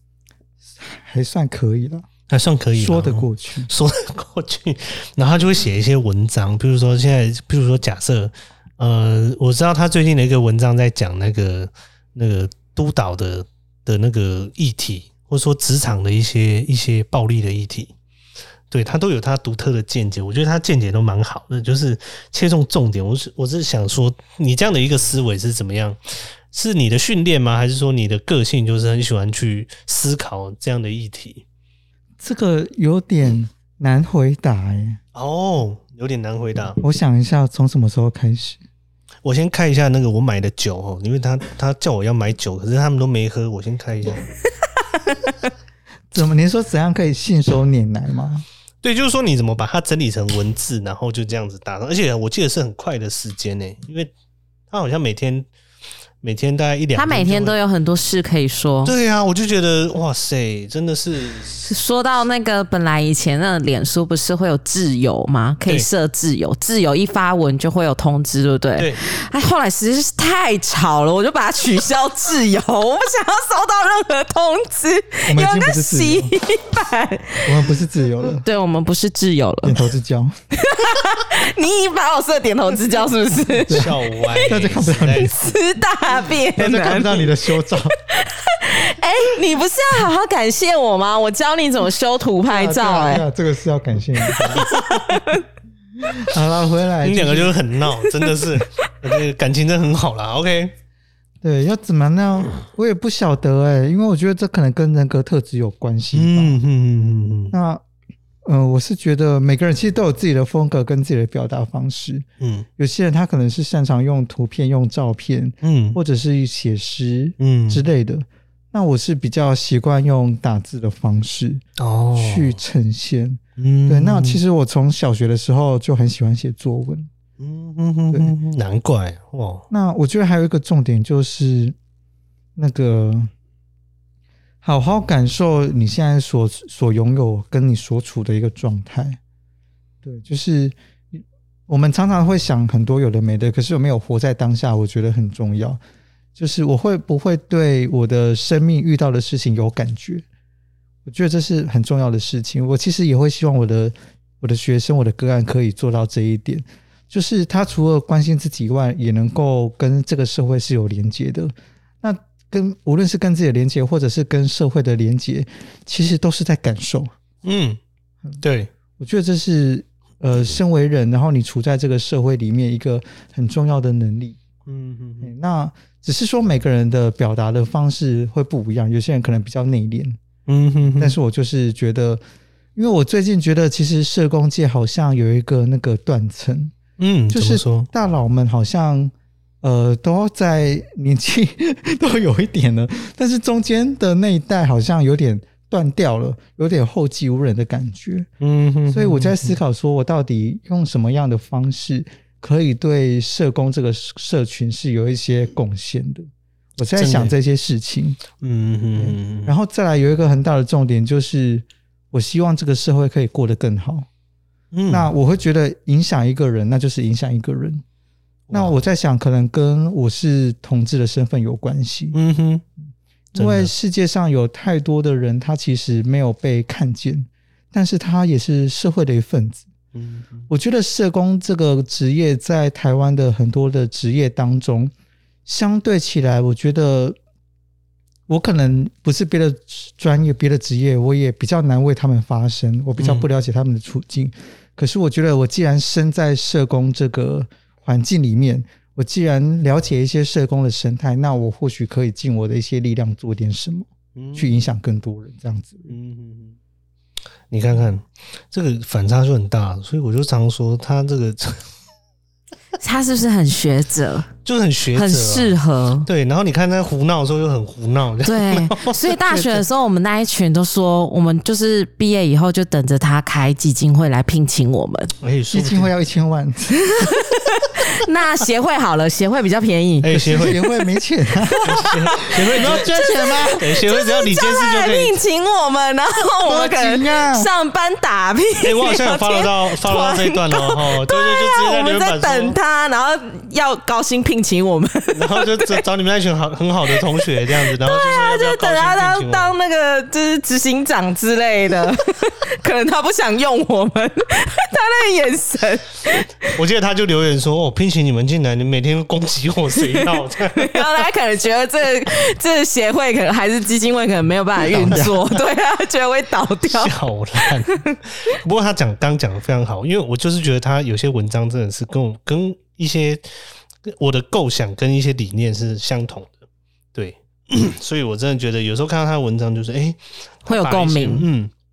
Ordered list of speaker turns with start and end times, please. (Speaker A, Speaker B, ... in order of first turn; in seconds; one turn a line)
Speaker A: 0.7-2.1
Speaker B: 2.3-17.9
Speaker A: 2.7-3.7
Speaker B: 18.7-26.0
Speaker B: 26.5-31.4
Speaker A: 32.2-35.0
Speaker B: 35.1-36.8
Speaker A: 36.8-38.6
Speaker B: 39.2-44.2
Speaker A: 46.1-48.4
Speaker B: 48.8-54.1
Speaker B: 54.7-55.5
Speaker B: 56.2-57.5
Speaker C: 56.9-58.9
Speaker B: 58.8-61.7
Speaker C: 61.6-79.9
Speaker A: 75.3-76.3
Speaker A: 77.4-78.4
Speaker A: 79.6-80.3
Speaker C: 80.5-84.5
Speaker A: 83.7-85.3
Speaker B: 83.7-85.5
Speaker C: 85.2-87.4
Speaker A: 86.5-88.0
Speaker C: 88.1-93.2
Speaker A: 92.5-94.7
Speaker B: 94.6-95.2
Speaker C: 95.1-95.4
Speaker A: 96.1-97.5
Speaker B: 97.0-100.7
Speaker A: 101.4-106.6
Speaker B: 106.1-107.5
Speaker A: 107.5-107.8
Speaker A: 108.4-112.2
Speaker B: 112.4-112.7
Speaker A: 112.8-121.6
Speaker B: 115.6-116.0
Speaker B: 117.4-117.8
Speaker B: 121.8-122.6
Speaker A: 122.2-127.1
Speaker B: 123.6-124.4
Speaker B: 127.4-129.7
Speaker A: 129.7-131.8
Speaker A: 132.6-133.3
Speaker A: 134.6-139.2
Speaker A: 140.0-145.8
Speaker A: 146.3-150.2
Speaker A: 151.0-167.1
Speaker B: 167.4-167.8
Speaker B: 168.4-168.7
Speaker A: 169.0-174.4
Speaker B: 174.7-175.3
Speaker A: 175.2-180.2
Speaker B: 180.5-181.2
Speaker A: 181.0-182.2
Speaker A: 182.8-186.7
Speaker B: 187.0-187.9
Speaker A: 187.3-198.3
Speaker B: 198.4-199.6
Speaker A: 198.9-208.2
Speaker B: 207.0-207.3
Speaker B: 208.4-209.5
Speaker A: 208.9-214.1
Speaker B: 214.7-215.1
Speaker A: 214.9-217.8
Speaker B: 218.5-218.8
Speaker A: 218.5-222.2
Speaker B: 222.1-222.6
Speaker B: 223.3-223.7
Speaker A: 223.3-229.7
Speaker B: 229.9-230.5
Speaker A: 230.5-234.9
Speaker A: 235.4-237.2
Speaker A: 238.3-255.9
Speaker B: 243.0-243.3
Speaker B: 254.1-254.6
Speaker B: 255.9-256.6
Speaker B: 257.5-261.7
Speaker C: 262.8-264.3
Speaker B: 264.4-269.6
Speaker C: 264.9-266.1
Speaker C: 268.2-275.1
Speaker B: 275.2-275.9
Speaker A: 275.5-277.1
Speaker C: 276.8-280.8
Speaker B: 280.0-280.6
Speaker A: 280.2-283.6
Speaker C: 281.5-295.8
Speaker B: 281.6-285.2
Speaker A: 286.4-287.5
Speaker B: 288.6-292.6
Speaker B: 295.1-299.5
Speaker C: 297.7-306.5
Speaker B: 306.5-311.0
Speaker C: 310.0-318.0
Speaker A: 314.6-315.2
Speaker B: 314.7-315.0
Speaker B: 316.7-323.2
Speaker B: 323.8-326.4
Speaker B: 326.9-331.5
Speaker C: 330.4-331.3